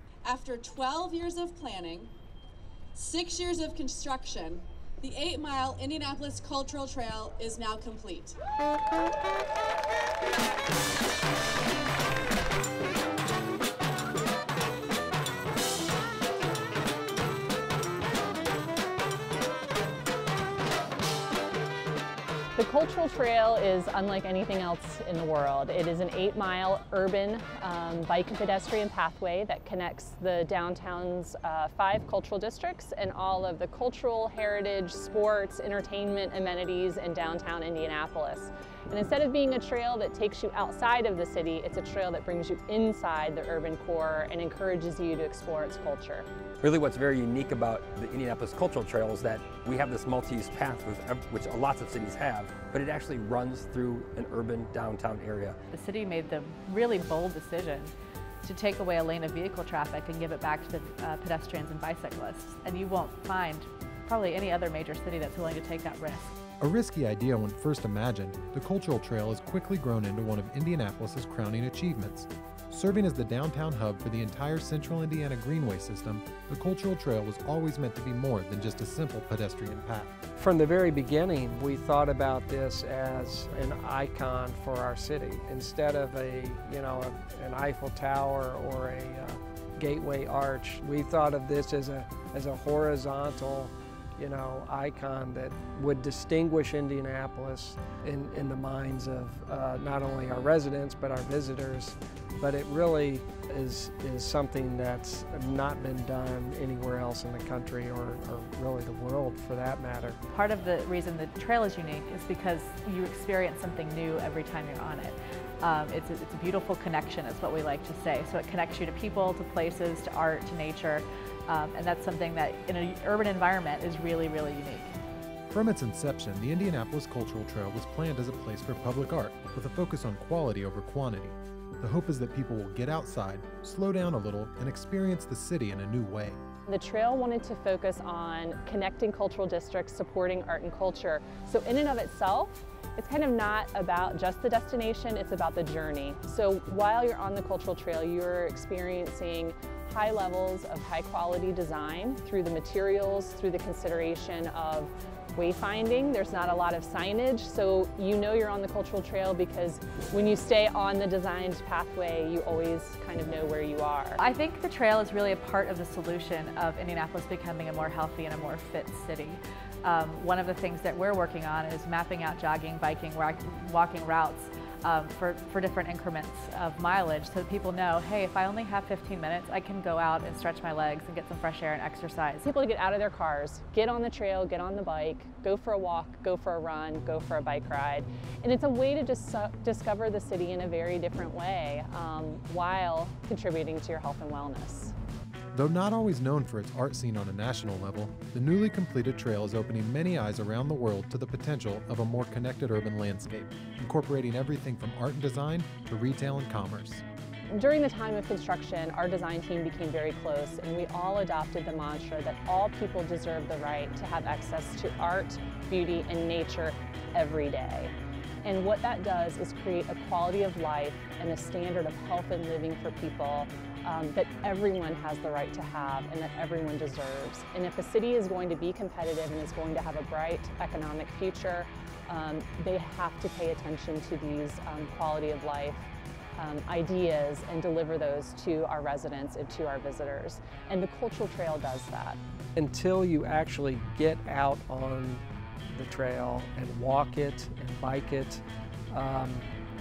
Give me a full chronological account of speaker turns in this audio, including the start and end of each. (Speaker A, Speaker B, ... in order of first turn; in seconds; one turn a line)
Speaker A: 0.2-2.1
Speaker A: 2.9-8.3
Speaker B: 22.6-46.3
Speaker C: 46.6-55.6
Speaker D: 55.7-66.3
Speaker E: 66.6-80.1
Speaker F: 80.4-110.2
Speaker D: 110.3-124.9
Speaker E: 125.5-136.4
Speaker B: 136.7-164.2
Speaker D: 164.2-182.5
Speaker B: 182.4-194.9
Speaker E: 195.5-207.0
Speaker B: 207.5-242.2
Speaker F: 242.6-249.5